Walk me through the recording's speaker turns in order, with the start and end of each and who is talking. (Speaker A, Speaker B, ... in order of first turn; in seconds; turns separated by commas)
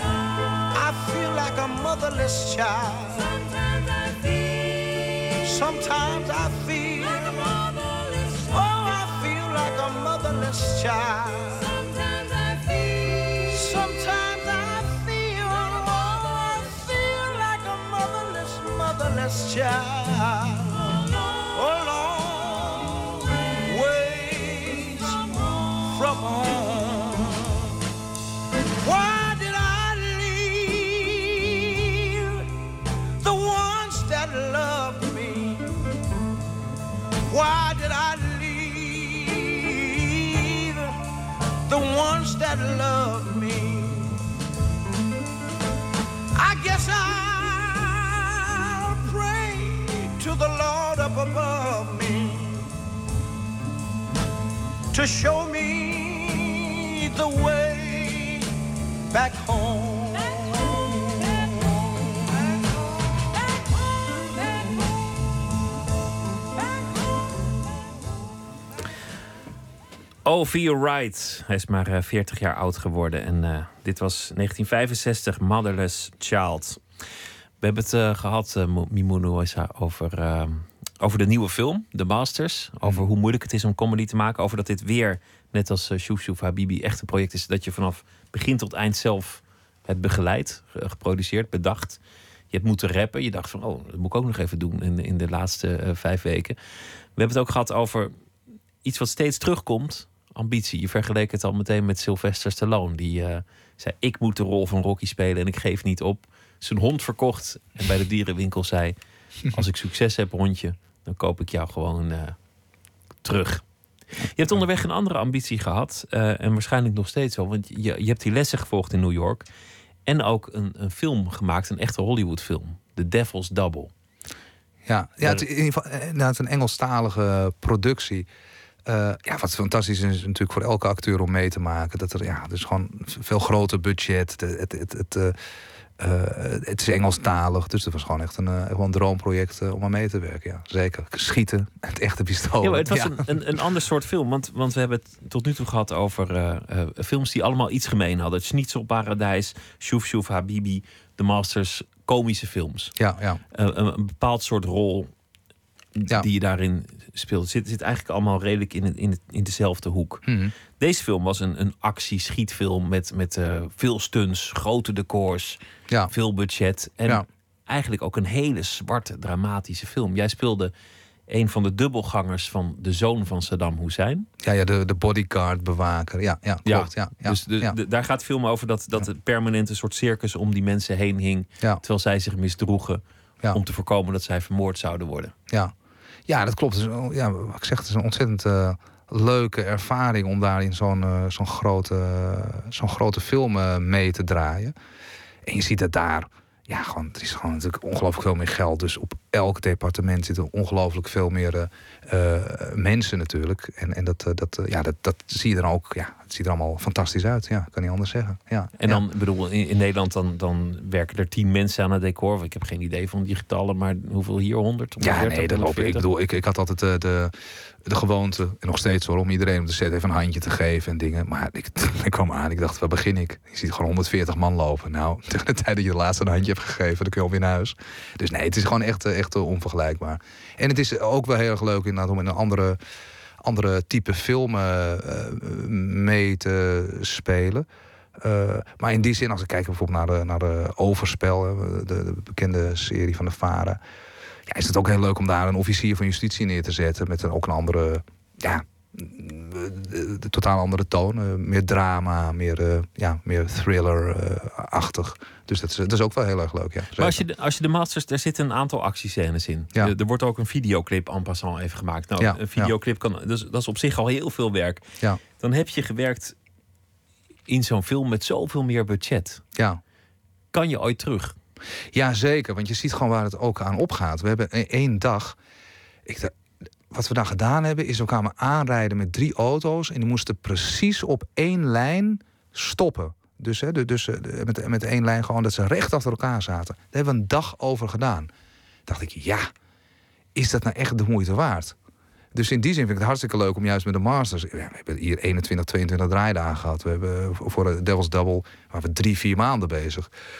Speaker A: 0.7-27.7, Speaker A: 28.8-32.5, Speaker A: 33.2-35.7, Speaker A: 37.3-41.0, Speaker A: 41.7-44.1, Speaker A: 46.3-52.7, Speaker A: 54.9-58.5, Speaker A: 59.1-62.7, Speaker A: 64.1-64.6, Speaker B: 70.2-76.8, Speaker B: 77.6-92.0, Speaker B: 92.5-96.5, Speaker B: 97.2-98.1, Speaker B: 98.8-109.0, Speaker B: 109.5-112.4, Speaker B: 113.2-113.6, Speaker B: 114.3-119.5, Speaker B: 120.0-123.9, Speaker C: 124.9-128.3, Speaker C: 128.9-135.4, Speaker C: 136.0-143.2, Speaker B: 142.6-152.9, Speaker C: 153.0-153.4, Speaker B: 153.5-155.1, Speaker B: 155.9-160.2, Speaker C: 160.2-160.5, Speaker B: 160.8-170.7, Speaker B: 171.3-174.3, Speaker C: 174.4-177.8, Speaker B: 176.6-185.3, Speaker C: 186.3-194.7, Speaker C: 195.4-209.0, Speaker B: 208.8-216.1, Speaker C: 215.0-217.3, Speaker C: 217.8-232.8, Speaker C: 233.4-237.7, Speaker C: 238.2-243.8, Speaker C: 244.5-257.2, Speaker B: 257.0-264.8, Speaker C: 262.2-262.7, Speaker B: 265.4-266.3, Speaker B: 267.5-269.4, Speaker C: 269.6-269.8, Speaker B: 270.5-271.3, Speaker C: 271.9-275.4, Speaker C: 276.1-276.3, Speaker C: 276.9-288.3, Speaker C: 288.9-289.5, Speaker C: 290.3-291.8, Speaker C: 292.3-300.1